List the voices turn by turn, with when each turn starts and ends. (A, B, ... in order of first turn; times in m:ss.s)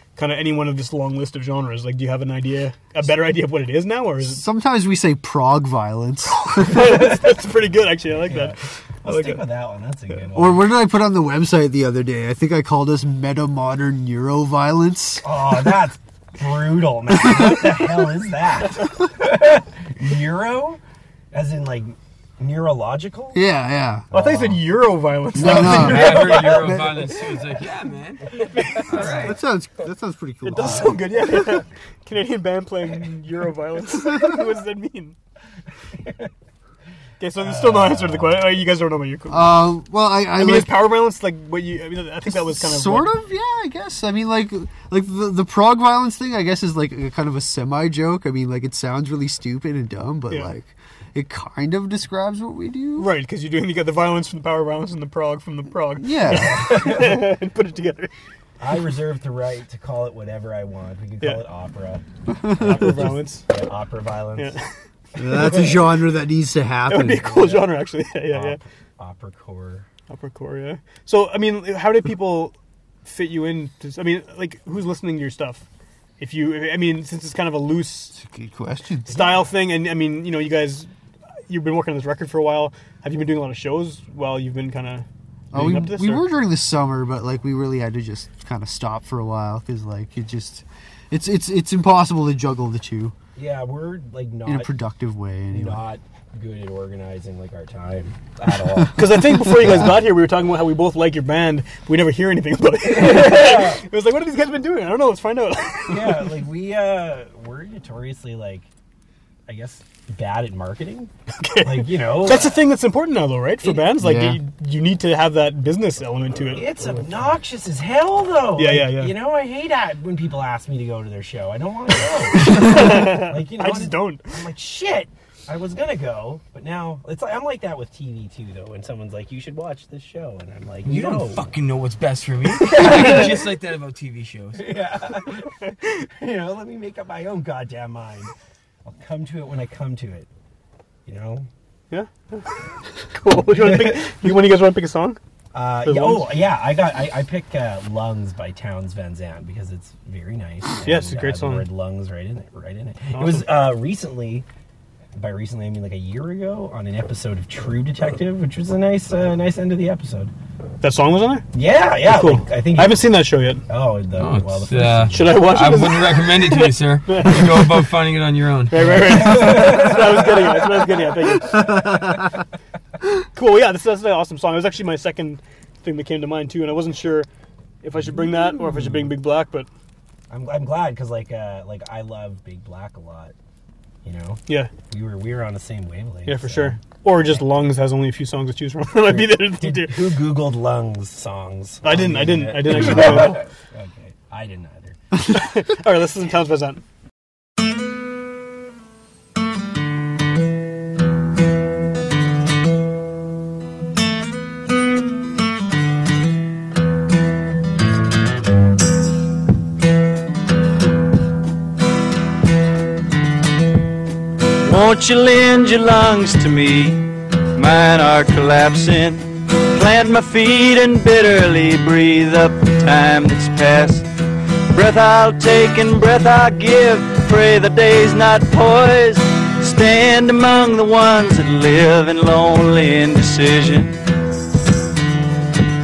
0:00.2-0:04.4 A
0:04.2-0:06.7 B
0:06.3-0:09.4 A
0:06.8-0:07.3 C
0:08.1-0:10.6 C
0:10.3-0:15.3 B
0:15.2-0:20.8 C
0:21.3-0:23.4 C
0:23.3-0:24.1 B
0:24.1-0:26.6 A
0:25.3-0:27.0 B
0:25.5-0:29.4 D
0:26.1-0:26.4 C
0:28.5-0:29.1 A
0:28.8-0:29.3 C
0:29.0-0:31.3 B
0:30.4-0:35.2 A
0:30.6-0:30.9 C
0:36.0-0:36.3 C
0:37.2-0:39.7 A
0:37.4-0:38.6 C
0:39.3-0:40.8 B
0:40.3-0:43.1 A
0:42.2-0:53.1 B
0:53.0-0:58.1 A
0:56.0-0:56.8 B
0:56.3-0:57.4 C
0:58.6-1:04.5 C
1:02.4-1:02.8 B
1:02.6-1:03.4 A
1:04.4-1:04.6 A
1:05.2-1:07.3 B
1:05.2-1:05.7 A
1:06.9-1:08.6 A
1:07.2-1:09.9 C
1:10.1-1:12.5 A
1:13.0-1:15.6 A
1:16.2-1:18.2 A
1:18.1-1:19.2 B
1:19.0-1:20.9 A
1:21.5-1:26.2 A
1:25.5-1:33.1 B
1:33.4-1:34.7 C
1:34.4-1:35.8 B
1:35.5-1:40.0 C
1:39.0-1:46.2 A
1:42.8-1:43.8 C
1:45.9-1:48.7 C
1:49.5-1:52.6 C
1:51.4-1:57.0 A
1:53.6-1:54.0 C
1:54.0-1:54.4 B
1:56.5-2:11.5 C
1:58.6-1:59.1 A
2:02.3-2:04.3 A
2:10.8-2:14.8 D
2:12.6-2:13.4 C
2:12.8-2:13.1 A
2:14.6-2:18.3 C
2:18.8-2:20.3 C
2:21.0-2:21.5 C
2:21.9-2:22.5 A
2:23.1-2:25.2 A
2:23.5-2:24.2 C
2:25.5-2:34.5 C
2:25.8-2:26.4 A
2:30.8-2:31.6 A
2:33.1-2:33.5 A
2:35.2-2:40.3 C
2:40.8-2:41.5 A
2:41.5-2:45.4 C
2:42.0-2:43.6 A
2:44.2-2:48.9 D
2:45.1-2:47.8 A
2:48.7-2:51.9 A
2:48.8-2:50.8 C
2:51.6-2:52.2 C
2:53.3-2:57.3 A
2:57.8-2:59.7 A
2:58.0-2:59.1 C
3:00.3-3:03.3 C
3:04.0-3:07.5 C
3:06.2-3:10.1 A
3:09.0-3:15.0 C
3:11.8-3:13.4 A
3:15.2-3:16.8 A
3:34.6-3:44.1 E
3:44.7-3:54.0 E